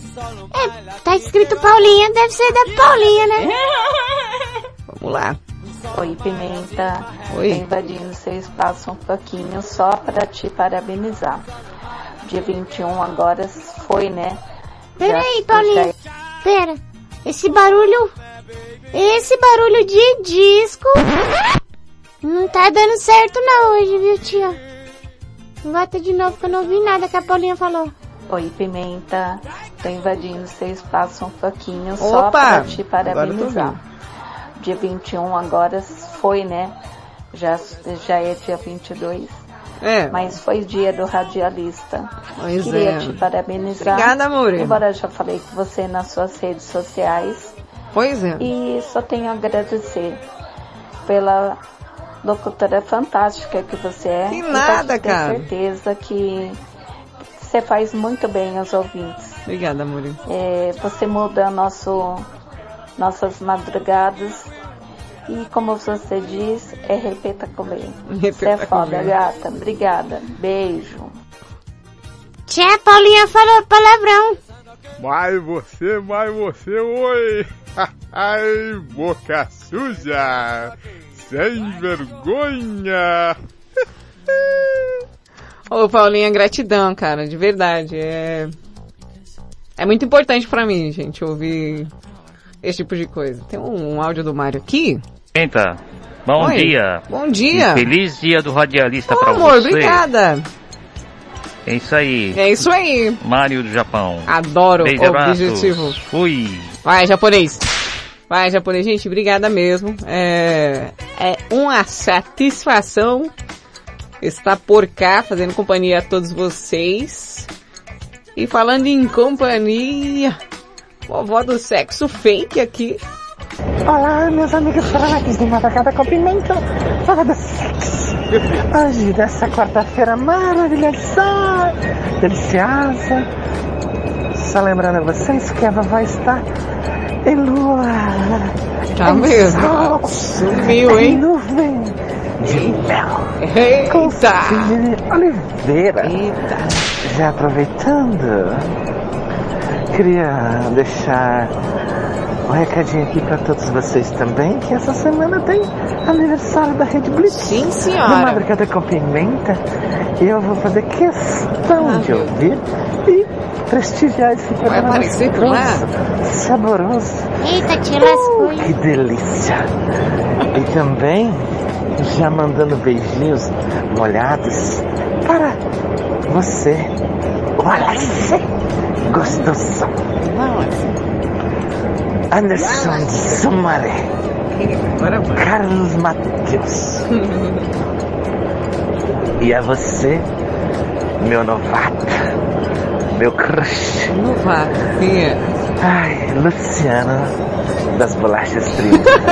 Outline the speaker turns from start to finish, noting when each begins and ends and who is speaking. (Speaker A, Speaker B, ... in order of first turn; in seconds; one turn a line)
Speaker A: 0.5-3.5
Speaker B: 4.9-5.4
Speaker C: 5.9-11.5
Speaker B: 7.3-7.7
Speaker C: 12.2-14.4
Speaker A: 15.0-18.1
Speaker C: 15.0-15.9
Speaker A: 18.9-21.2
Speaker A: 22.2-24.6
Speaker A: 25.6-27.9
Speaker C: 28.3-33.8
Speaker B: 32.0-33.8
Speaker C: 34.6-36.7
Speaker C: 37.3-39.4
Speaker B: 39.8-40.3
Speaker C: 40.1-47.5
Speaker B: 42.4-43.2
Speaker B: 43.8-44.8
Speaker B: 47.9-48.5
Speaker C: 48.4-50.2
Speaker C: 51.1-51.6
Speaker C: 52.2-56.6
Speaker B: 54.3-55.5
Speaker C: 57.4-59.4
Speaker B: 59.5-60.2
Speaker C: 60.3-62.3
Speaker C: 63.0-64.5
Speaker C: 65.3-71.1
Speaker B: 68.1-69.1
Speaker A: 72.5-74.4
Speaker D: 76.4-77.1
Speaker D: 81.3-82.5
Speaker B: 85.7-88.5
Speaker B: 89.8-91.9
Speaker B: 92.6-95.0
Speaker E: 95.3-100.0
Speaker B: 96.3-97.9
Speaker B: 99.1-100.5
Speaker E: 101.7-102.5
Speaker B: 102.3-103.2
Speaker E: 103.2-106.7
Speaker B: 104.2-106.0
Speaker B: 106.8-107.7
Speaker B: 108.3-113.3
Speaker B: 114.2-117.5
Speaker B: 118.3-120.4
Speaker B: 121.1-123.0
Speaker F: 123.9-128.1
Speaker F: 128.7-133.3
Speaker F: 134.4-136.4
Speaker F: 137.2-138.5
Speaker B: 138.9-141.2
Speaker F: 139.1-143.3
Speaker B: 143.4-144.8
Speaker F: 143.9-146.1
Speaker B: 146.0-146.9
Speaker F: 147.0-148.7
Speaker F: 149.9-151.5
Speaker F: 152.5-159.6
Speaker B: 157.2-158.5
Speaker F: 160.2-167.2
Speaker B: 161.8-162.3
Speaker B: 164.6-165.9
Speaker A: 167.4-168.7
Speaker F: 168.0-169.7
Speaker F: 170.5-171.4
Speaker F: 171.9-175.6
Speaker F: 176.3-176.9
Speaker F: 177.6-178.4
Speaker B: 177.7-178.3
Speaker F: 179.1-179.9
Speaker B: 180.2-181.0
Speaker F: 182.3-184.1
Speaker B: 182.6-183.0
Speaker B: 184.5-185.5
Speaker F: 185.3-187.0
Speaker B: 187.1-187.7
Speaker F: 189.4-190.3
Speaker F: 191.2-192.2
Speaker F: 193.1-194.1
Speaker B: 194.1-195.5
Speaker F: 195.8-197.3
Speaker F: 197.9-199.1